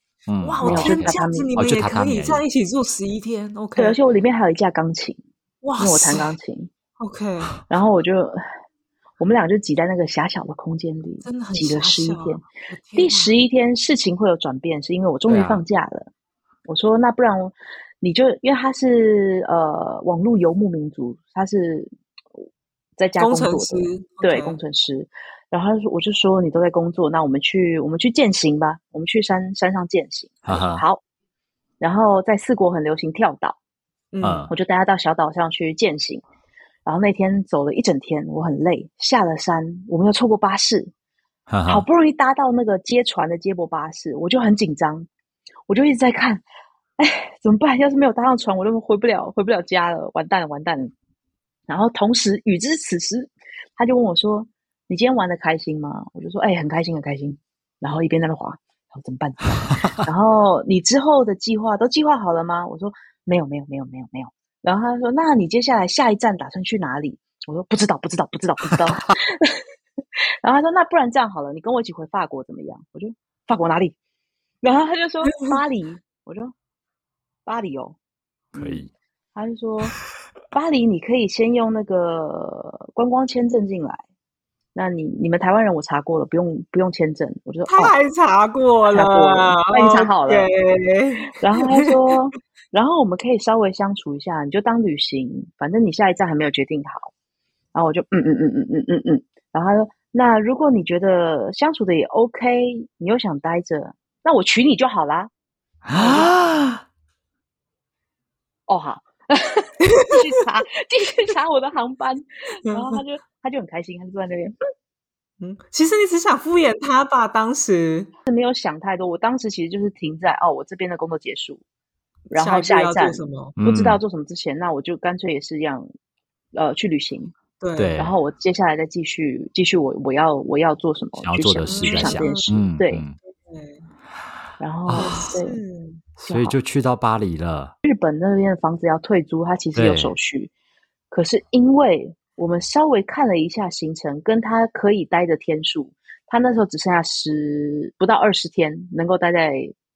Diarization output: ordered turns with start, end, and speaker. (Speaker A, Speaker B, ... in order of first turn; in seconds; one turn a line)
Speaker A: 0.3-2.4
Speaker B: 0.4-4.0
Speaker C: 0.6-1.5
Speaker C: 3.8-5.2
Speaker B: 5.6-6.3
Speaker C: 5.8-6.7
Speaker B: 7.0-7.5
Speaker C: 7.7-8.4
Speaker C: 9.2-16.1
Speaker B: 11.2-13.4
Speaker A: 15.3-15.6
Speaker C: 16.6-21.9
Speaker C: 23.0-31.0
Speaker B: 23.2-24.6
Speaker A: 30.4-30.8
Speaker C: 31.8-33.6
Speaker B: 34.1-34.5
Speaker A: 34.2-34.5
Speaker C: 34.5-36.2
Speaker C: 36.8-40.9
Speaker A: 41.5-41.8
Speaker C: 41.6-45.1
Speaker C: 45.7-46.4
Speaker C: 47.0-50.9
Speaker C: 51.7-69.6
Speaker C: 70.4-74.0
Speaker C: 74.6-76.5
Speaker C: 77.5-78.0
Speaker A: 78.5-78.9
Speaker C: 78.5-78.8
Speaker C: 79.3-80.0
Speaker C: 80.5-84.0
Speaker C: 84.7-87.9
Speaker B: 87.7-92.0
Speaker C: 88.9-90.5
Speaker C: 91.3-97.1
Speaker C: 97.7-105.3
Speaker A: 105.8-106.8
Speaker B: 105.9-106.3
Speaker C: 108.7-114.5
Speaker B: 109.8-110.3
Speaker B: 112.7-113.0
Speaker B: 115.4-118.1
Speaker C: 118.2-121.6
Speaker B: 122.3-123.6
Speaker C: 122.3-125.9
Speaker A: 123.6-124.0
Speaker C: 126.5-127.3
Speaker B: 127.6-128.0
Speaker A: 127.8-128.1
Speaker C: 128.0-133.0
Speaker A: 131.2-133.2
Speaker B: 131.7-132.5
Speaker B: 133.2-133.8
Speaker C: 134.6-135.6
Speaker A: 134.9-135.1
Speaker B: 134.9-136.0
Speaker A: 136.2-137.7
Speaker C: 136.3-136.6
Speaker C: 137.8-140.5
Speaker A: 139.7-140.1
Speaker C: 141.1-149.7